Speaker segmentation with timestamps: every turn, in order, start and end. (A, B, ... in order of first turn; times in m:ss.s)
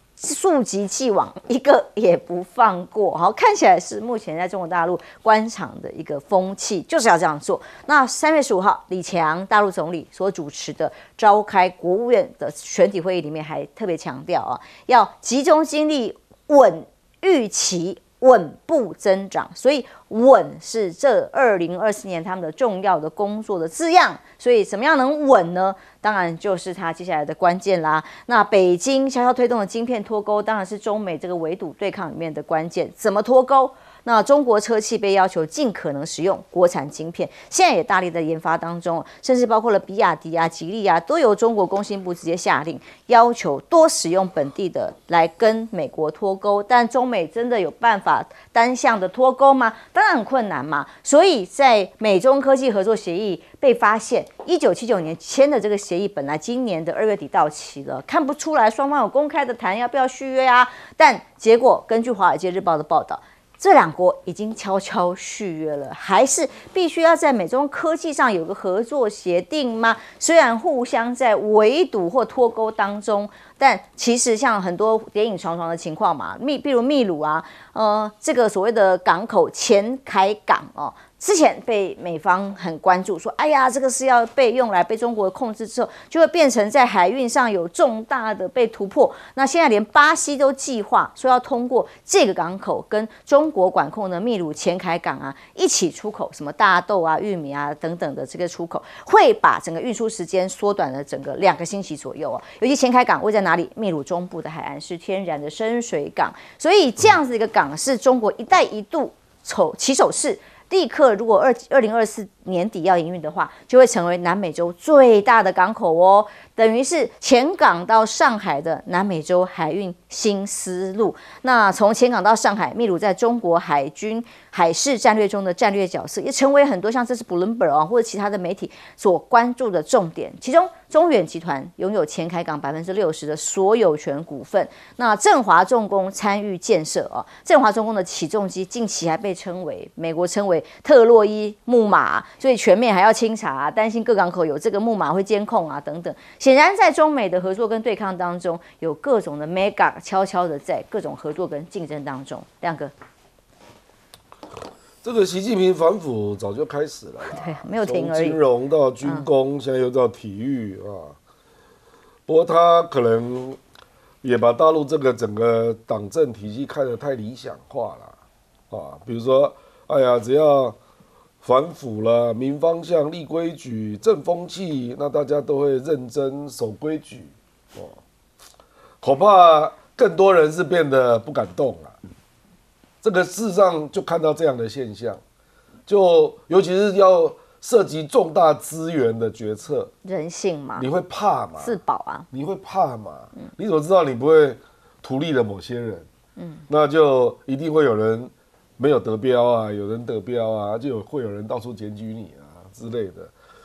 0:00.2-2:32.9 A
2:35.0-2:41.2 B
2:37.3-2:38.4 A
2:42.3-2:43.6 B
2:44.2-2:48.1 B
2:48.7-2:50.8 B
2:51.4-2:58.0 B
2:59.0-3:02.0 B
3:03.0-3:05.2 B
3:05.9-3:09.9 B
3:10.0-3:10.8 A
3:10.8-3:11.8 B
3:11.6-3:12.3 A
3:12.3-3:16.0 B
3:16.4-3:16.6 A
3:16.7-3:23.3 B